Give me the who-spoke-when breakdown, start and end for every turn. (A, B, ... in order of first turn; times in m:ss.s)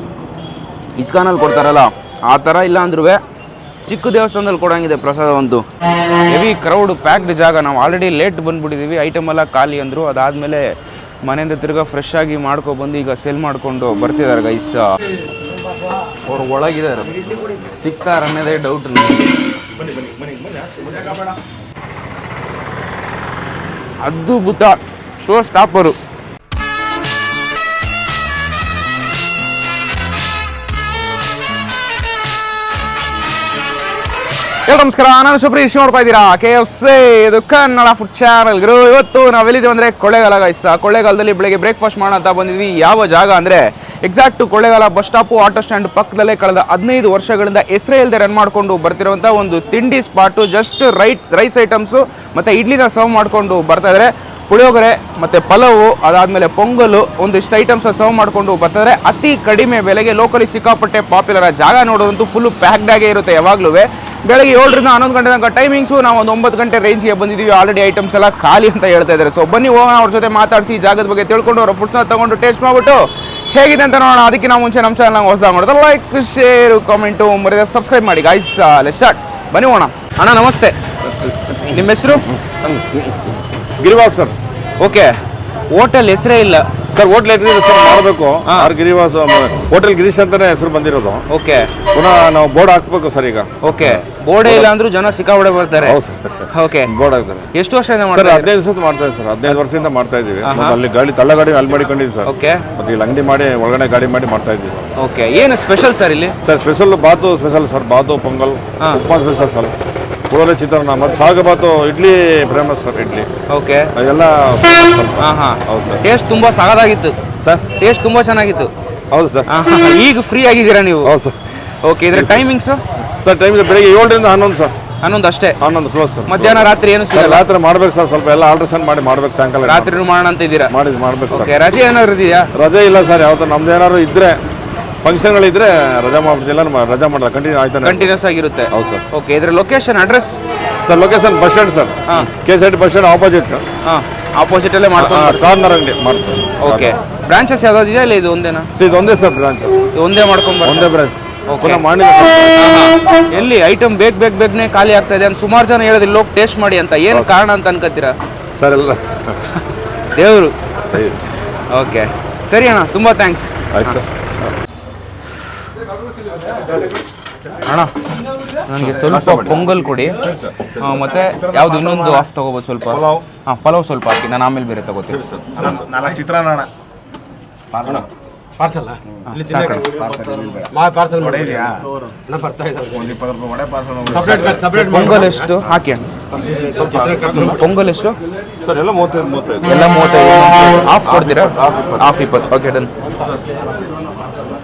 0:01.0-0:03.2 A
0:03.9-0:05.6 A
0:06.3-0:15.0 A
0:16.2-0:19.4 A
0:20.0-0:20.9 B
0:24.0-0:26.0 A
0:34.6-1:22.4 A
1:21.5-1:21.8 B
1:22.3-1:24.4 B
1:24.8-1:25.2 A
1:25.7-1:26.7 A
1:26.9-1:31.2 B
1:28.4-1:28.7 A
1:31.3-1:31.7 A
1:31.8-1:34.7 B
1:33.6-1:36.0 A
1:35.8-1:37.5 B
1:36.5-1:36.9 A
1:37.5-1:38.5 A
1:38.1-1:44.9 B
1:40.4-1:40.8 A
1:42.2-1:42.7 A
1:45.0-1:46.4 A
1:46.4-1:49.7 B
1:48.8-1:49.0 A
1:50.3-1:53.3 B
1:53.5-1:53.9 A
1:53.9-1:56.0 B
1:55.2-1:57.2 A
1:57.4-1:57.7 B
1:57.7-1:58.7 A
1:59.1-1:59.5 B
1:59.5-2:02.8 A
2:01.0-2:01.4 B
2:02.1-2:02.4 B
2:03.1-2:04.7 B
2:05.0-2:05.6 A
2:05.6-2:10.1 B
2:06.3-2:07.4 A
2:09.6-2:10.7 A
2:10.7-2:11.5 B
2:11.3-2:12.5 A
2:12.5-2:14.4 B
2:15.0-2:18.2 B
2:17.8-2:20.4 A
2:18.7-2:19.0 B
2:20.8-2:23.6 B
2:23.8-2:25.5 A
2:25.0-2:27.0 B
2:26.6-2:28.7 A
2:28.7-2:29.9 B
2:29.9-2:30.9 A
2:30.6-2:32.9 B
2:31.5-2:31.8 A
2:32.5-2:38.2 A
2:37.1-2:37.4 B
2:38.5-2:39.6 B
2:40.0-2:40.6 A
2:40.9-2:41.3 B
2:41.7-2:44.0 A
2:43.7-2:44.6 B
2:47.6-2:48.0 A
2:48.6-2:55.2 A
2:48.9-2:52.1 B
2:52.8-2:53.2 B
2:55.1-2:56.0 B
2:55.6-2:56.7 C
2:58.6-3:03.2 C
2:59.3-2:59.9 A
3:00.1-3:00.6 B
3:03.1-3:04.8 B
3:04.1-3:05.5 C
3:04.7-3:06.1 A
3:06.4-3:07.3 B
3:06.6-3:07.5 C
3:07.3-3:08.2 A
3:08.6-3:09.8 B
3:09.6-3:12.9 A
3:11.1-3:12.1 B